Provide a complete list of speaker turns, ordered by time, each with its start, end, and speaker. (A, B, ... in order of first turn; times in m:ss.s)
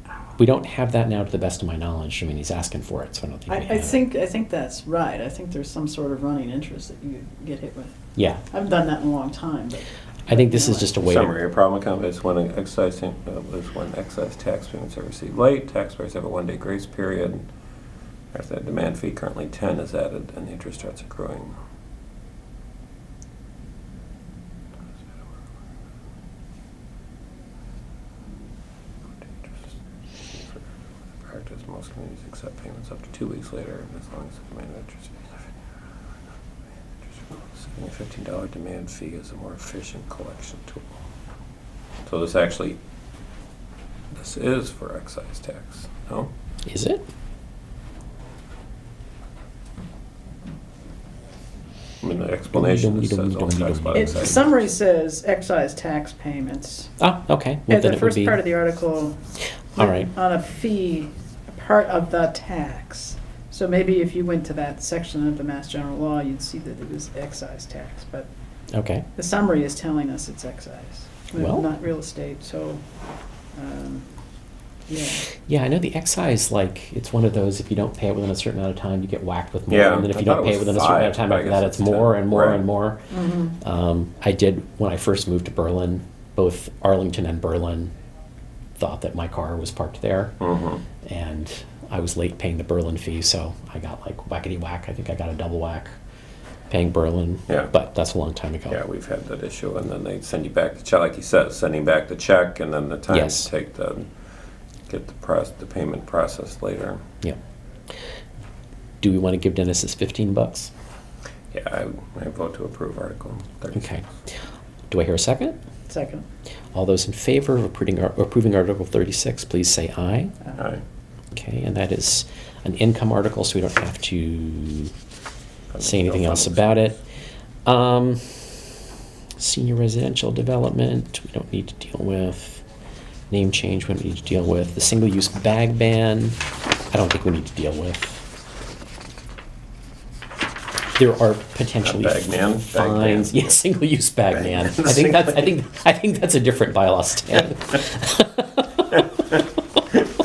0:00.4-0:04.0 A
0:03.5-0:07.9 B
0:08.2-0:08.4 A
0:08.5-0:10.9 B
0:10.3-0:11.4 A
0:11.0-0:17.5 C
0:18.3-0:21.6 C
0:29.2-0:30.7 C
0:31.2-0:35.4 C
0:37.1-0:40.9 C
0:42.0-0:42.8 C
0:44.1-0:46.3 C
0:46.7-0:47.0 A
0:52.0-0:54.5 C
0:52.5-0:54.4 A
0:54.0-0:56.9 B
0:57.0-0:58.4 A
0:57.7-0:59.2 B
0:59.8-1:00.1 A
0:59.8-1:08.3 B
1:08.7-1:09.1 A
1:09.2-1:12.8 B
1:11.4-1:11.7 A
1:13.6-1:14.0 B
1:14.9-1:15.3 B
1:15.5-1:27.9 A
1:19.7-1:22.6 C
1:23.1-1:23.6 B
1:28.8-1:30.4 A
1:30.4-1:30.8 C
1:31.0-1:35.9 A
1:36.7-1:38.8 A
1:38.7-1:44.1 C
1:43.1-1:43.5 A
1:44.9-1:47.0 C
1:49.0-1:50.7 A
1:51.5-1:54.0 C
1:53.7-1:54.1 A
1:54.9-1:55.6 A
1:55.9-1:56.3 B
1:56.7-2:00.4 A
2:00.6-2:00.8 C
2:01.3-2:04.9 A
2:05.7-2:06.7 C
2:05.8-2:07.0 A
2:07.6-2:08.8 A
2:09.4-2:12.6 A
2:13.3-2:16.4 A
2:16.9-2:18.3 A
2:21.0-2:30.0 A
2:21.8-2:23.4 C
2:24.3-2:25.5 C